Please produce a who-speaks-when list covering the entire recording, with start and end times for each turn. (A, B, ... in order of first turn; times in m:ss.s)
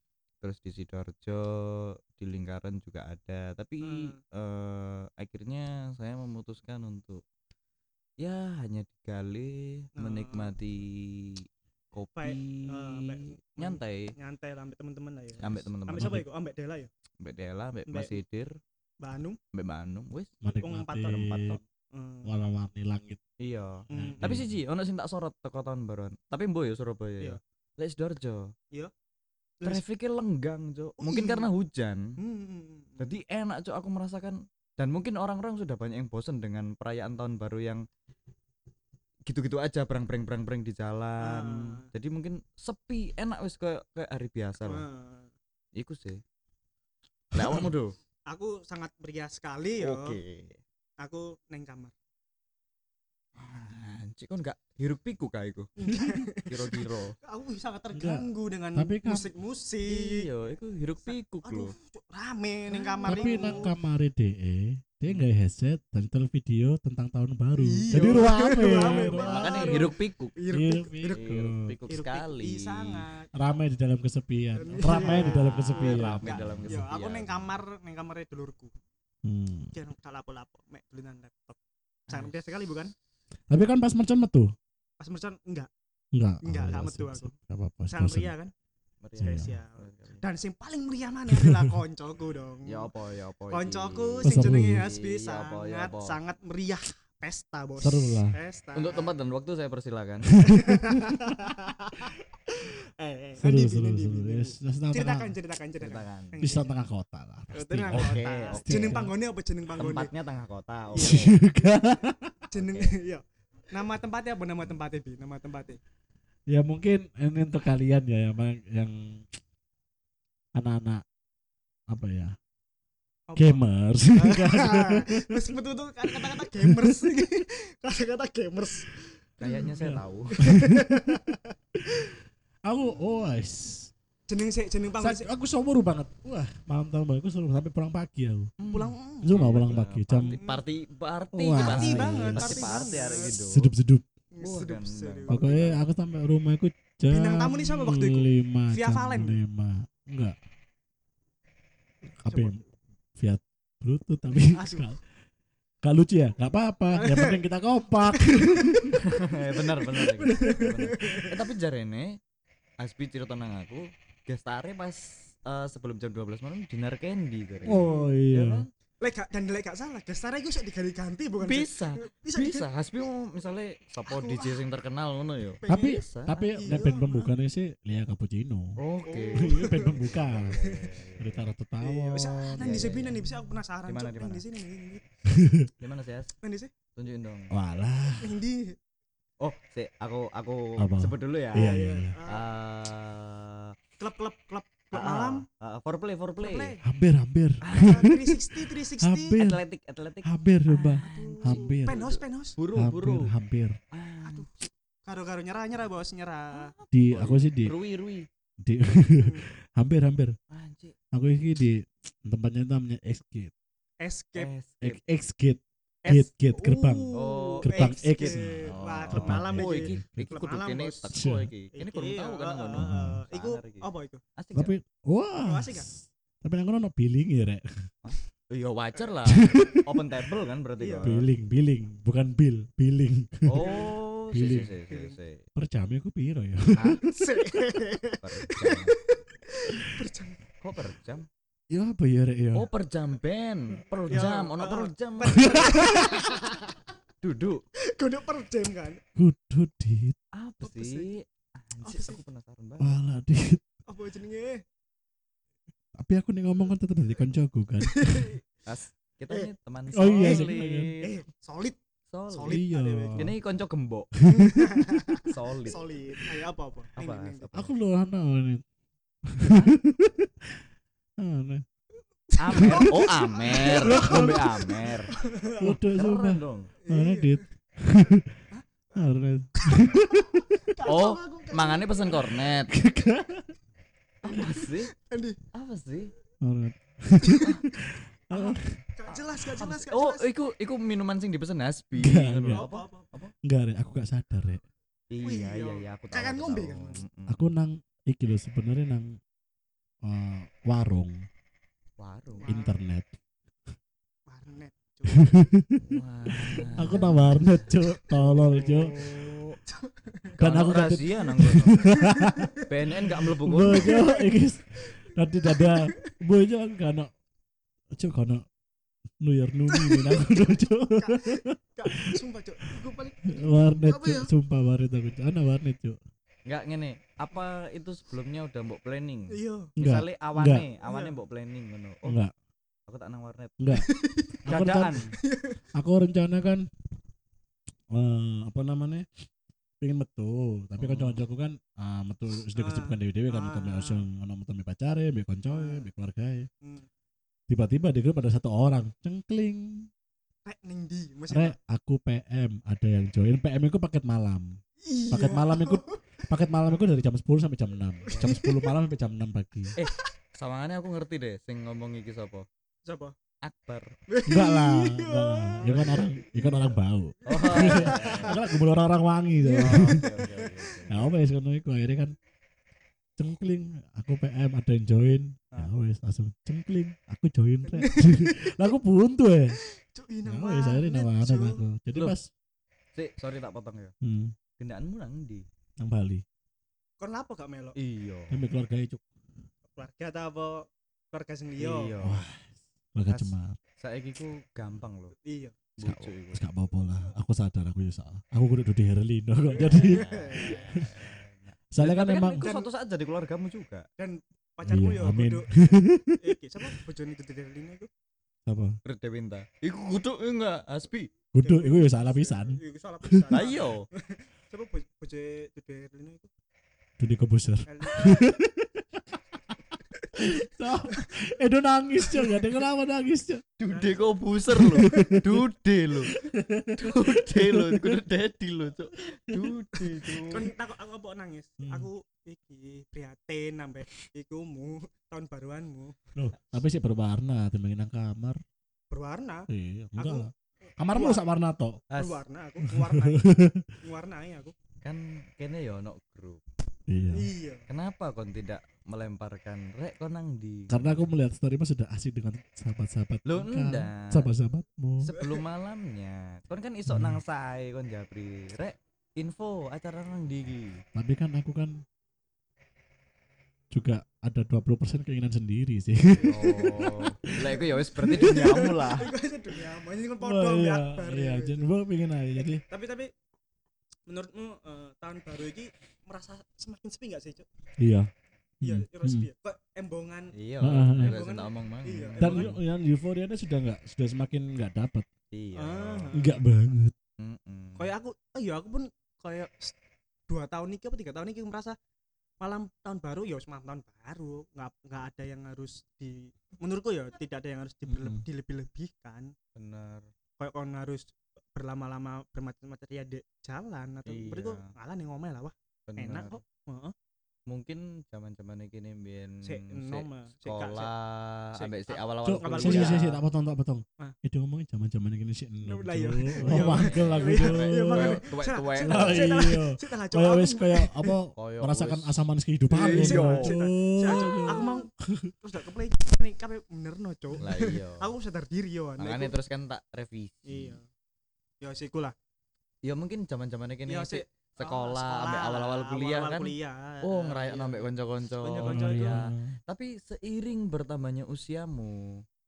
0:00.4-0:07.2 A
0:03.8-0:04.2 B
0:08.2-0:14.1 A
0:10.0-0:10.5 B
0:12.2-0:16.9 B
0:15.4-0:16.2 A
0:16.0-0:16.2 C
0:17.2-0:18.5 A
0:17.9-0:18.2 B
0:19.0-0:19.4 B
0:19.5-0:20.3 A
0:20.4-0:21.6 C
0:20.6-0:22.3 B
0:21.1-0:21.6 A
0:22.2-0:23.2 C
0:23.4-0:28.5 A
0:23.9-0:24.4 B
0:23.9-0:24.5 C
0:29.6-0:32.1 A
0:31.0-0:31.5 B
0:32.2-0:33.1 B
0:33.0-0:37.8 A
0:39.3-0:44.8 A
0:41.2-0:41.9 B
0:44.6-0:45.3 B
0:45.8-0:46.2 A
0:47.3-0:47.9 A
0:48.3-0:50.2 B
0:49.8-0:50.6 A
0:51.0-0:51.9 B
0:53.4-0:57.1 A
0:55.8-1:00.3 B
0:57.9-0:59.3 C
0:59.8-1:01.7 A
1:01.0-1:03.7 B
1:02.9-1:03.7 A
1:03.0-1:09.9 C
1:07.6-1:11.2 B
1:08.7-1:10.4 A
1:10.5-1:11.7 C
1:11.1-1:13.0 A
1:11.9-1:13.3 B
1:13.3-1:16.8 C
1:14.6-1:18.7 B
1:14.8-1:17.6 A
1:19.2-1:19.7 C
1:19.7-1:21.6 B
1:22.1-1:22.3 A
1:22.1-1:22.9 B
1:23.5-1:24.5 C
1:25.0-1:25.7 B
1:26.1-1:28.3 C
1:26.4-1:27.3 B
1:27.9-1:28.5 B
1:29.0-1:30.2 A
1:29.2-1:32.9 B
1:29.2-1:29.5 C
1:31.3-1:31.6 C
1:32.6-1:36.2 A
1:33.5-1:39.1 B
1:34.2-1:34.8 C
1:37.8-1:38.4 C
1:38.7-1:40.4 A
1:40.4-1:40.9 C
1:40.4-1:46.7 B
1:43.4-1:45.3 C
1:45.8-1:46.4 A
1:46.4-1:49.1 C
1:47.5-1:50.1 B
1:47.9-1:49.1 A
1:49.8-1:51.4 A
1:51.0-1:51.3 B
1:51.0-1:52.4 C
1:52.5-1:55.8 B
1:52.5-1:52.9 A
1:56.5-1:59.2 C
2:00.5-2:01.0 C
2:01.9-2:02.4 C
2:03.3-2:09.7 B
2:03.4-2:05.5 C
2:06.1-2:07.2 C
2:09.4-2:10.4 A
2:09.7-2:11.3 C
2:10.3-2:12.1 B
2:12.6-2:13.9 C
2:14.3-2:15.3 B
2:15.0-2:18.5 C
2:18.6-2:23.7 A
2:18.7-2:20.6 B
2:19.2-2:20.4 C
2:21.3-2:24.0 C
2:21.5-2:23.4 B
2:24.3-2:25.8 B
2:24.4-2:25.8 A
2:25.3-2:30.4 C
2:27.1-2:29.4 B
2:32.2-2:32.6 C
2:32.3-2:32.6 B
2:33.2-2:35.0 C
2:34.5-2:34.9 B
2:35.8-2:39.0 C
2:36.9-2:37.4 B
2:38.1-2:41.4 B
2:39.0-2:42.2 A
2:42.8-2:48.7 A
2:47.6-2:48.6 C
2:47.6-2:48.2 B
2:49.0-2:52.7 B
2:51.4-2:56.8 A
2:54.0-2:54.6 B
2:55.6-2:57.3 B
2:55.7-2:58.8 C
2:58.8-3:01.5 A
2:59.0-3:00.9 B
2:59.4-3:00.6 C
3:01.2-3:02.7 C
3:01.8-3:05.0 B
3:02.6-3:03.2 A
3:03.8-3:04.4 A
3:05.3-3:05.7 C
3:05.8-3:06.3 A
3:06.4-3:06.7 B
3:07.0-3:07.5 A
3:07.5-3:08.3 C
3:08.2-3:08.8 B
3:09.4-3:13.7 A
3:10.8-3:12.1 C
3:11.5-3:12.5 B
3:14.0-3:15.4 B
3:14.9-3:16.7 A
3:16.4-3:16.8 B
3:16.8-3:19.6 C
3:17.6-3:18.1 A
3:17.7-3:19.4 B
3:19.4-3:23.3 A
3:20.2-3:22.0 C
3:21.0-3:22.6 B
3:22.7-3:23.8 C
3:23.9-3:24.5 A
3:24.2-3:24.5 B
3:25.0-3:26.7 B
3:26.5-3:28.3 A
3:26.9-3:27.8 C
3:28.6-3:30.4 C
3:29.2-3:29.5 B
3:30.5-3:30.9 A
3:31.1-3:33.5 C
3:34.0-3:34.5 B
3:34.4-3:35.0 A
3:34.8-3:37.1 C
3:36.0-3:41.1 B
3:37.1-3:44.7 A
3:37.6-3:40.4 C
3:41.1-3:41.5 C
3:41.7-3:44.2 B
3:42.8-3:43.2 C
3:44.5-3:47.6 C
3:45.4-3:45.9 B
3:48.0-3:51.3 A
3:49.3-3:49.8 C
3:50.8-3:51.2 B
3:51.0-3:53.7 C
3:53.5-3:55.4 A
3:53.5-3:54.0 B
3:54.3-3:54.7 C
3:54.9-3:55.2 B
3:55.6-3:57.0 C
3:56.7-3:57.0 A
3:57.0-4:00.4 B
3:58.2-3:59.0 A
4:00.6-4:01.2 A
4:01.7-4:02.7 C
4:02.5-4:05.8 A
4:04.1-4:06.8 B
4:05.4-4:06.3 C
4:07.2-4:07.6 A
4:07.9-4:09.0 B
4:09.2-4:10.2 C
4:10.4-4:13.0 A
4:10.6-4:11.1 B
4:11.8-4:12.2 B
4:12.8-4:13.6 C
4:13.9-4:14.6 B
4:16.0-4:18.3 C
4:17.8-4:18.4 B
4:18.6-4:21.1 A
4:19.9-4:20.9 C
4:20.2-4:21.8 B
4:22.1-4:22.6 A
4:22.3-4:23.3 B
4:22.5-4:23.3 C
4:23.2-4:24.1 A
4:24.2-4:25.1 C
4:24.3-4:27.5 B
4:25.2-4:25.9 A
4:27.0-4:27.7 A
4:27.5-4:28.6 C
4:29.2-4:30.6 C
4:31.2-4:31.6 C
4:32.3-4:35.8 B
4:32.4-4:35.1 A
4:32.5-4:33.0 C
4:33.6-4:34.6 C
4:35.6-4:38.3 C
4:35.9-4:36.7 A
4:36.8-4:37.4 B
4:38.5-4:42.5 B
4:39.0-4:40.6 C
4:40.8-4:42.7 A
4:42.7-4:43.5 C
4:44.2-4:44.9 A
4:44.2-4:45.4 B
4:45.5-4:46.1 A
4:46.4-4:48.8 C
4:47.1-4:47.6 B
4:48.3-4:50.3 B
4:49.1-4:53.3 A
4:52.0-4:52.6 C
4:52.5-4:53.1 B
4:53.4-4:54.6 C
4:55.1-4:57.5 A
4:55.2-4:57.0 B
4:57.3-4:59.2 C
5:00.0-5:01.2 C
5:02.0-5:02.5 A
5:02.4-5:02.8 B
5:02.5-5:03.1 C
5:04.3-5:05.4 B
5:05.1-5:05.8 C
5:05.9-5:09.6 A
5:06.6-5:07.3 B
5:06.7-5:09.0 C
5:09.7-5:10.3 B
5:10.4-5:12.0 A
5:10.4-5:12.5 C
5:11.8-5:12.7 B
5:12.6-5:14.0 A
5:13.1-5:17.1 C
5:13.6-5:16.1 B
5:17.9-5:18.4 C
5:19.2-5:22.2 C
5:19.7-5:24.3 B
5:23.3-5:26.0 C
5:26.4-5:32.2 A
5:29.3-5:29.7 B
5:29.8-5:30.6 C
5:30.8-5:31.1 B
5:32.0-5:32.3 C
5:32.9-5:33.7 A
5:33.6-5:33.9 C
5:33.7-5:34.4 B
5:34.4-5:35.1 C
5:34.4-5:35.1 A
5:35.1-5:35.6 B
5:35.7-5:36.6 C
5:37.9-5:39.1 C
5:39.8-5:46.5 C
5:40.8-5:41.2 A
5:42.5-5:44.0 B
5:45.5-5:45.9 B
5:46.6-5:46.9 B
5:47.5-5:49.9 C
5:50.4-5:51.6 B
5:51.3-5:54.5 C
5:54.8-5:56.0 B
5:55.1-5:59.8 C
5:58.0-5:58.7 B
5:58.1-5:58.3 A
5:59.8-6:00.1 B
5:59.8-6:02.4 A
6:02.8-6:03.1 B
6:03.4-6:03.9 A
6:04.1-6:08.6 B
6:04.3-6:10.2 C
6:05.6-6:06.1 A
6:07.2-6:08.4 A
6:09.4-6:11.1 B
6:09.6-6:11.1 A
6:10.9-6:12.1 C
6:13.2-6:19.6 C
6:17.7-6:18.6 B
6:19.5-6:21.6 B
6:20.2-6:22.3 C
6:22.9-6:23.9 A
6:24.0-6:24.3 C
6:24.6-6:25.4 A
6:25.8-6:26.2 C
6:27.0-6:27.8 B
6:27.8-6:28.4 A
6:28.3-6:29.0 C
6:29.8-6:31.9 B
6:31.6-6:32.2 A
6:32.0-6:33.6 C
6:33.1-6:35.2 A
6:35.2-6:35.6 B
6:35.8-6:36.4 A
6:35.8-6:41.0 C
6:39.5-6:40.7 B
6:39.7-6:43.9 A
6:41.7-6:42.4 C
6:42.4-6:42.7 B
6:44.0-6:47.9 B
6:44.6-6:46.3 C
6:48.4-6:48.8 C
6:48.8-6:51.1 A
6:51.3-6:53.4 C
6:51.4-6:56.3 B
6:53.3-6:53.9 A
6:57.0-6:59.0 C
6:57.6-6:58.3 B
7:00.0-7:01.1 B
7:00.1-7:03.4 C
7:03.6-7:06.2 A
7:03.7-7:04.0 B
7:04.5-7:05.4 C
7:06.1-7:08.0 C
7:06.8-7:10.5 A
7:10.2-7:16.0 B
7:11.6-7:11.9 C
7:16.1-7:18.4 C
7:18.9-7:20.3 B
7:19.5-7:21.8 C
7:20.9-7:21.2 B
7:21.9-7:22.2 A
7:21.9-7:24.5 B
7:22.6-7:23.7 C
7:24.8-7:26.4 A
7:26.9-7:27.3 C
7:27.1-7:27.6 B
7:27.7-7:31.1 A
7:30.7-7:35.1 C
7:33.2-7:34.3 A
7:35.0-7:40.8 A
7:36.9-7:37.2 C
7:40.9-7:41.8 C
7:43.7-7:48.7 C
7:46.2-7:49.1 A
7:48.1-7:51.7 B
7:50.2-7:52.6 C
7:52.4-7:53.1 B
7:54.1-7:57.4 B
7:57.8-7:58.1 C
7:58.6-7:59.3 C
7:58.6-8:00.4 B
8:00.3-8:02.5 A
8:00.6-8:01.2 C
8:00.9-8:02.6 B
8:02.2-8:05.1 C
8:05.3-8:06.1 A
8:05.5-8:06.4 B
8:06.1-8:06.9 C
8:07.2-8:07.9 A
8:07.8-8:09.8 B
8:10.3-8:11.8 B
8:12.4-8:19.3 B
8:17.8-8:18.2 C
8:19.6-8:20.1 A
8:20.4-8:26.9 B
8:24.0-8:24.7 A
8:25.9-8:26.4 A
8:27.5-8:33.2 A
8:29.4-8:30.9 B
8:31.5-8:33.1 B
8:32.2-8:38.2 C
8:35.6-8:41.1 B
8:36.4-8:39.4 A
8:38.8-8:45.3 C
8:41.4-8:42.2 A
8:42.7-8:44.6 A
8:42.7-8:44.9 B
8:45.4-8:49.3 B
8:47.4-8:48.1 A
8:49.0-8:50.8 A
8:50.4-8:50.8 B
8:51.6-8:52.1 B
8:52.8-9:02.2 A
8:53.9-8:59.2 B
8:58.6-8:59.6 C